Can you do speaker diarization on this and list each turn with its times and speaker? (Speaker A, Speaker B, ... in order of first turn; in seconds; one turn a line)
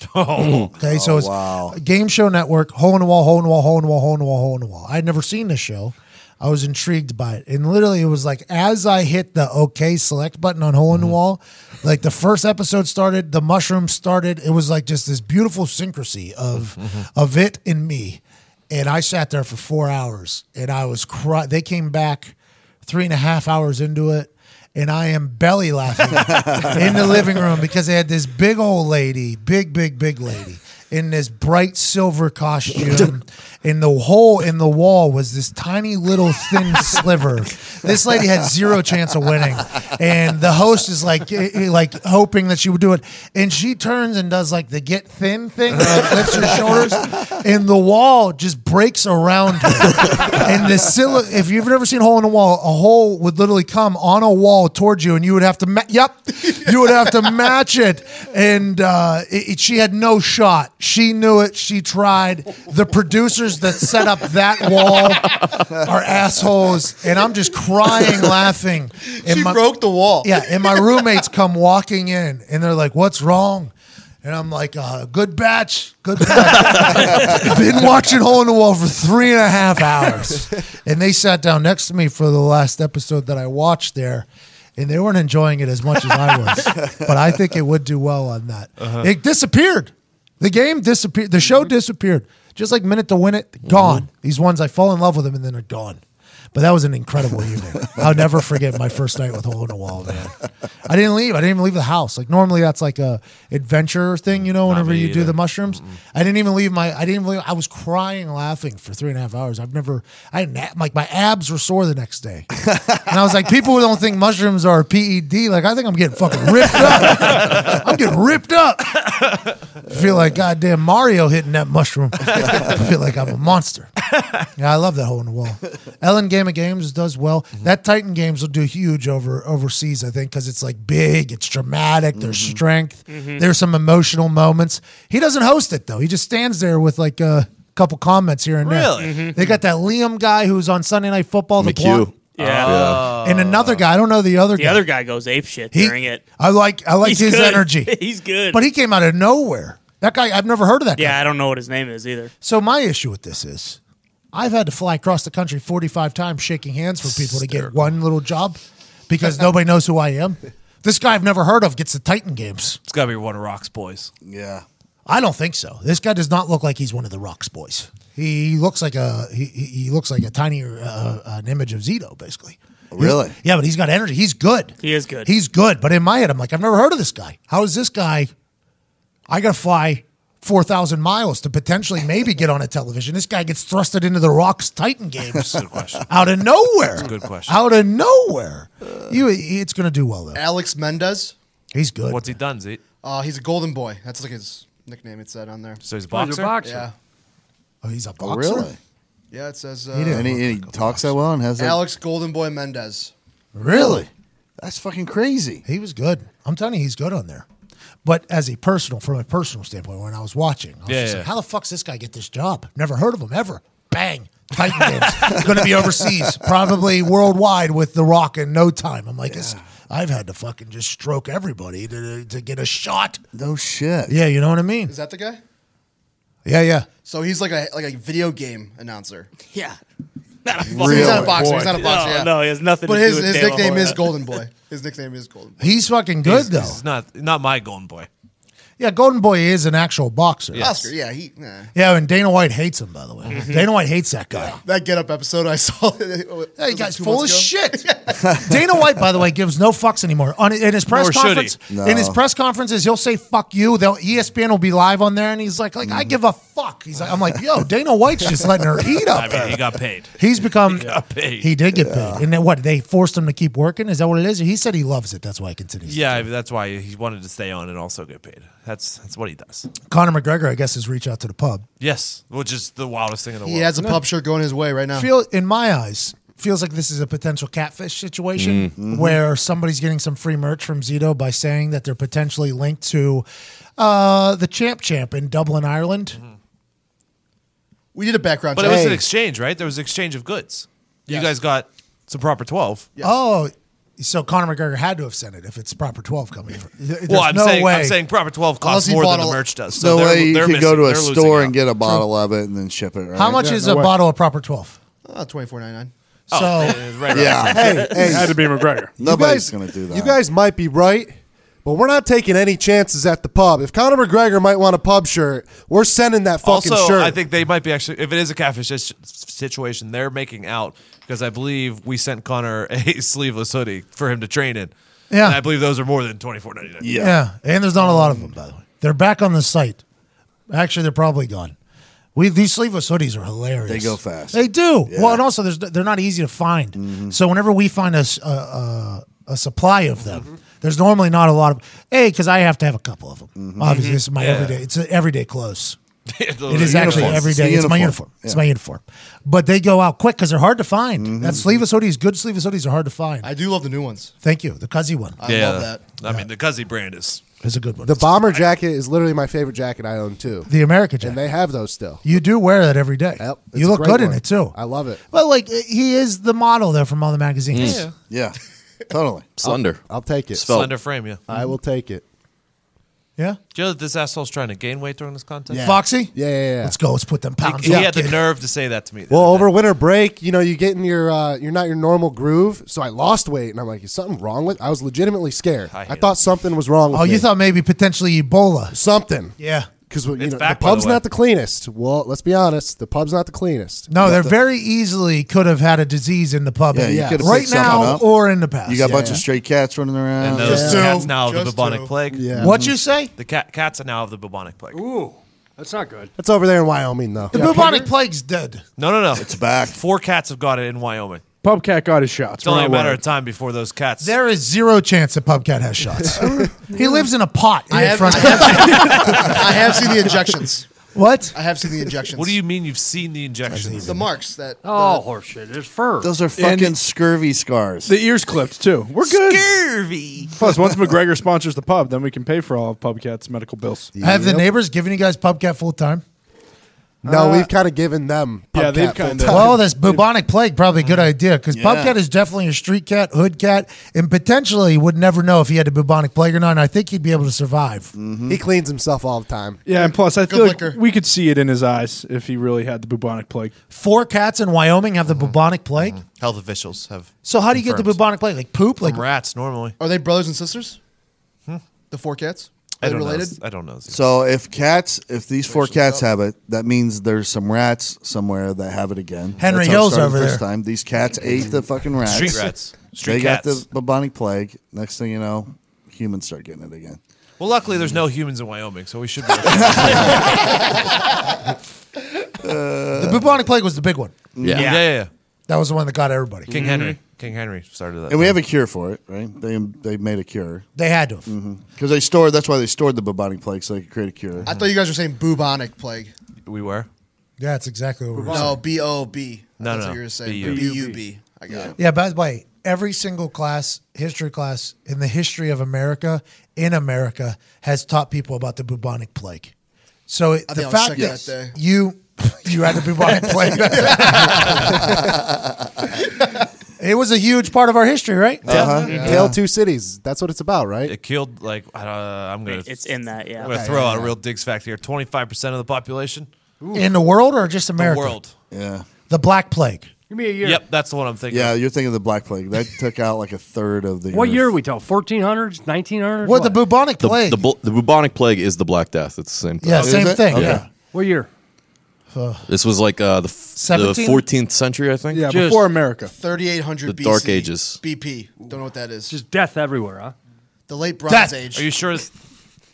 Speaker A: 0.1-0.7
Speaker B: 0.7-69.7
Speaker C: 0.8-1.8
Speaker C: 26.3-26.7
Speaker D: 69.1-70.4
Speaker B: 70.2-73.7
Speaker B: 74.2-84.3
Speaker B: 84.8-96.0
Speaker A: 88.8-89.1
Speaker B: 96.5-119.2
Speaker A: 104.7-106.0
Speaker B: 119.9-123.9
Speaker B: 124.6-142.1
Speaker C: 132.2-132.6
Speaker E: 133.1-133.4
Speaker A: 138.6-139.4
Speaker E: 139.0-139.4
Speaker F: 141.6-143.1
Speaker E: 142.3-142.9
Speaker A: 142.4-143.8
Speaker B: 143.0-144.9
Speaker E: 144.6-146.2
Speaker B: 145.7-148.0
Speaker E: 147.0-148.6
Speaker B: 148.5-151.2
Speaker E: 151.0-152.3
Speaker B: 152.4-153.8
Speaker B: 154.3-162.8
Speaker A: 162.9-164.1
Speaker C: 164.2-164.7
Speaker B: 165.1-178.3
Speaker C: 172.9-173.3
Speaker E: 174.8-175.3
Speaker B: 179.3-190.4
Speaker A: 185.5-186.1
Speaker A: 187.0-187.6
Speaker D: 190.3-191.3
Speaker B: 191.7-192.3
Speaker A: 192.1-192.8
Speaker D: 193.0-195.8
Speaker A: 195.8-196.7
Speaker G: 196.1-196.9
Speaker D: 196.6-196.9
Speaker B: 197.8-198.7
Speaker C: 198.2-198.8
Speaker D: 199.3-200.2
Speaker B: 199.9-201.1
Speaker C: 200.1-201.8
Speaker D: 201.6-203.1
Speaker B: 203.6-204.1
Speaker C: 203.7-204.1
Speaker C: 204.6-205.6
Speaker B: 205.7-207.5
Speaker B: 208.1-223.2
Speaker A: 210.9-211.3
Speaker C: 219.3-219.6
Speaker C: 223.3-224.2
Speaker B: 224.1-224.9
Speaker D: 224.9-225.4
Speaker B: 226.4-226.9
Speaker D: 227.1-229.3
Speaker E: 229.4-229.8
Speaker E: 230.4-234.2
Speaker C: 230.7-231.6
Speaker D: 230.7-235.8
Speaker B: 231.0-231.3
Speaker H: 231.3-231.7
Speaker B: 235.6-236.8
Speaker A: 236.2-238.1
Speaker B: 238.8-240.8
Speaker A: 240.5-240.9
Speaker D: 240.6-241.7
Speaker B: 241.7-244.6
Speaker E: 243.3-243.6
Speaker D: 244.6-248.2
Speaker B: 246.6-259.6
Speaker C: 248.2-248.5
Speaker A: 250.9-251.6
Speaker C: 251.7-252.2
Speaker C: 255.8-256.1
Speaker A: 259.1-261.5
Speaker B: 260.2-266.3
Speaker C: 261.8-262.3
Speaker A: 265.9-269.7
Speaker B: 269.9-271.6
Speaker A: 271.8-273.8
Speaker D: 273.4-275.1
Speaker B: 274.9-283.2
Speaker F: 278.4-278.7
Speaker C: 278.8-279.2
Speaker B: 283.8-286.2
Speaker D: 287.9-289.0
Speaker A: 288.6-292.9
Speaker B: 293.0-298.0
Speaker A: 297.1-301.6
Speaker D: 298.6-299.4
Speaker C: 299.7-303.6
Speaker B: 303.1-304.8
Speaker I: 303.4-303.8
Speaker D: 305.1-305.9
Speaker B: 306.3-306.8
Speaker A: 306.3-308.0
Speaker C: 307.1-307.8
Speaker I: 307.4-308.4
Speaker H: 307.9-308.9
Speaker C: 309.0-310.2
Speaker I: 309.0-311.1
Speaker I: 311.6-317.2
Speaker A: 316.4-326.9
Speaker B: 325.1-325.4
Speaker C: 326.8-327.2
Speaker B: 327.0-329.8
Speaker C: 327.8-328.3
Speaker B: 330.5-331.6
Speaker B: 332.1-345.8
Speaker C: 333.7-335.2
Speaker C: 336.8-337.2
Speaker C: 343.4-343.8
Speaker E: 343.7-344.0
Speaker A: 344.2-344.6
Speaker A: 346.1-347.3
Speaker B: 346.5-353.3
Speaker C: 346.6-348.4
Speaker C: 351.0-351.5
Speaker D: 353.2-354.1
Speaker B: 354.2-355.2
Speaker D: 355.2-355.9
Speaker A: 355.2-357.2
Speaker B: 357.4-358.1
Speaker I: 357.8-360.5
Speaker B: 360.5-361.2
Speaker I: 361.0-362.0
Speaker B: 362.0-364.6
Speaker I: 363.2-365.0
Speaker B: 365.1-367.9
Speaker F: 367.5-367.8
Speaker A: 367.6-367.9
Speaker C: 368.0-368.4
Speaker C: 368.9-369.4
Speaker F: 369.4-369.8
Speaker I: 369.4-370.4
Speaker F: 370.4-370.7
Speaker A: 370.4-371.2
Speaker I: 371.3-372.0
Speaker A: 373.5-375.7
Speaker I: 375.5-376.8
Speaker B: 375.6-378.2
Speaker A: 377.4-379.5
Speaker I: 377.7-377.9
Speaker I: 379.1-387.3
Speaker A: 385.7-386.2
Speaker B: 386.9-388.8
Speaker I: 388.7-389.4
Speaker B: 389.4-389.7
Speaker I: 389.9-394.1
Speaker A: 390.2-391.0
Speaker B: 393.9-399.2
Speaker C: 394.0-394.3
Speaker C: 396.7-398.1
Speaker I: 396.8-398.0
Speaker C: 398.7-400.7
Speaker I: 398.8-399.2
Speaker A: 400.2-402.3
Speaker I: 400.4-401.1
Speaker D: 400.4-402.0
Speaker I: 402.1-402.6
Speaker C: 402.3-402.8
Speaker B: 402.4-403.1
Speaker A: 403.2-404.8
Speaker G: 404.7-406.1
Speaker I: 406.2-407.9
Speaker B: 407.3-408.6
Speaker A: 408.8-411.2
Speaker C: 409.2-409.8
Speaker H: 411.4-413.0
Speaker A: 412.4-414.1
Speaker B: 414.0-419.5
Speaker I: 416.4-416.8
Speaker D: 417.7-420.7
Speaker B: 420.9-421.4
Speaker D: 421.3-422.4
Speaker A: 422.1-424.0
Speaker B: 423.5-424.1
Speaker D: 423.8-425.0
Speaker G: 424.6-426.1
Speaker C: 426.0-428.0
Speaker H: 426.3-426.8
Speaker H: 427.9-429.5
Speaker A: 429.1-430.3
Speaker H: 430.4-433.9
Speaker I: 434.0-434.4
Speaker B: 434.0-436.0
Speaker I: 437.0-439.6
Speaker H: 437.1-437.5
Speaker H: 438.5-439.9
Speaker B: 439.3-447.9
Speaker C: 441.5-442.0
Speaker C: 447.9-448.4
Speaker I: 448.3-449.6
Speaker H: 449.6-453.5
Speaker D: 449.8-450.8
Speaker B: 453.7-456.0
Speaker A: 456.0-458.0
Speaker B: 457.2-459.0
Speaker A: 458.8-459.8
Speaker D: 459.8-460.8
Speaker D: 461.9-463.4
Speaker A: 462.8-464.0
Speaker C: 463.9-477.0
Speaker D: 465.5-466.0
Speaker B: 469.4-470.4
Speaker A: 472.0-473.6
Speaker A: 477.4-480.7
Speaker C: 479.4-480.3
Speaker C: 482.4-483.4
Speaker B: 482.9-484.2
Speaker C: 484.4-484.7
Speaker A: 484.5-485.1
Speaker E: 484.6-484.9
Speaker B: 485.5-486.6
Speaker A: 486.5-488.4
Speaker E: 486.5-487.0
Speaker C: 488.1-490.7
Speaker B: 490.8-491.3
Speaker C: 491.3-494.5
Speaker D: 494.4-496.1
Speaker A: 494.5-494.7
Speaker A: 496.5-496.9
Speaker B: 497.4-498.6
Speaker D: 498.3-501.8
Speaker A: 499.6-500.8
Speaker G: 500.4-501.0
Speaker B: 501.8-509.5
Speaker B: 510.1-514.9
Speaker D: 510.5-511.6
Speaker B: 516.8-519.1
Speaker C: 518.5-519.4
Speaker A: 518.5-518.9
Speaker E: 518.8-519.1
Speaker I: 518.8-521.0
Speaker A: 520.9-526.3
Speaker E: 522.5-523.6
Speaker I: 523.4-524.1
Speaker G: 526.6-526.9
Speaker B: 526.7-528.2
Speaker A: 527.8-528.3
Speaker C: 528.5-528.9
Speaker B: 529.1-529.9
Speaker G: 530.1-530.6
Speaker A: 530.4-531.5
Speaker C: 531.3-534.5
Speaker G: 534.1-536.6
Speaker B: 536.2-537.4
Speaker F: 537.0-540.6
Speaker B: 539.6-540.7
Speaker C: 539.8-540.6
Speaker G: 540.9-541.3
Speaker B: 542.1-542.5
Speaker F: 542.5-545.3
Speaker B: 543.6-544.3
Speaker H: 545.1-546.1
Speaker G: 545.3-545.7
Speaker D: 546.1-549.1
Speaker F: 546.9-547.8
Speaker G: 549.1-550.1
Speaker D: 550.7-551.7
Speaker B: 551.1-551.4
Speaker A: 551.5-552.1